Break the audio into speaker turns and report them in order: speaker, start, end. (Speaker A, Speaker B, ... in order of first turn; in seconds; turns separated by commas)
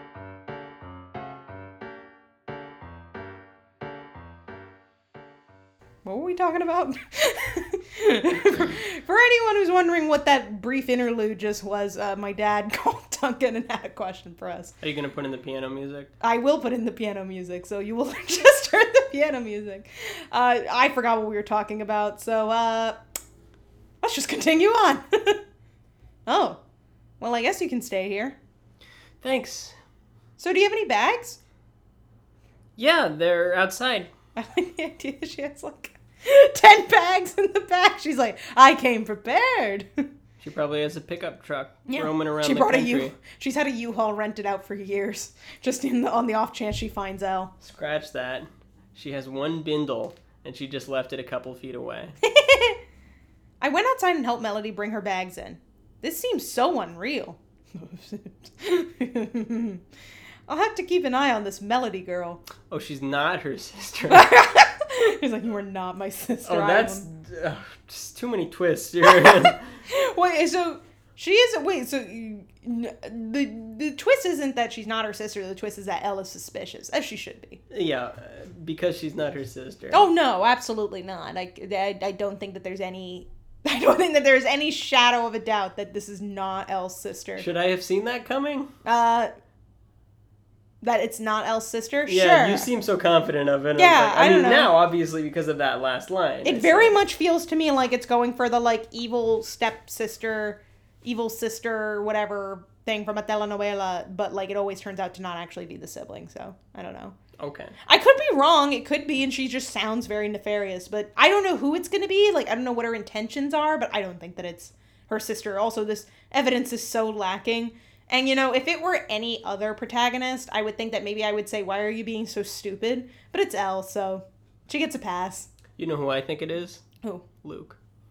Speaker A: 6.0-14.7, Speaker B: 14.8-16.1, Speaker A: 16.2-23.0, Speaker A: 24.0-25.4, Speaker A: 26.3-26.6, Speaker A: 27.2-28.4, Speaker B: 29.2-29.8, Speaker A: 30.4-31.4, Speaker B: 32.8-34.1, Speaker A: 34.4-40.0, Speaker B: 40.4-43.2, Speaker A: 41.9-47.5, Speaker B: 47.6-52.2, Speaker A: 52.2-52.8, Speaker A: 53.6-59.8, Speaker A: 60.5-62.4, Speaker B: 62.7-64.4, Speaker A: 64.1-67.1, Speaker B: 66.5-69.7, Speaker A: 69.2-77.6, Speaker B: 77.7-80.0, Speaker A: 79.9-87.5, Speaker B: 87.4-88.7, Speaker A: 88.8-89.3, Speaker A: 90.8-92.7, Speaker B: 92.1-97.0, Speaker A: 93.8-94.7, Speaker A: 96.5-107.2, Speaker B: 107.4-107.8, Speaker A: 107.9-125.5, Speaker B: 125.8-126.8, Speaker B: 127.4-127.8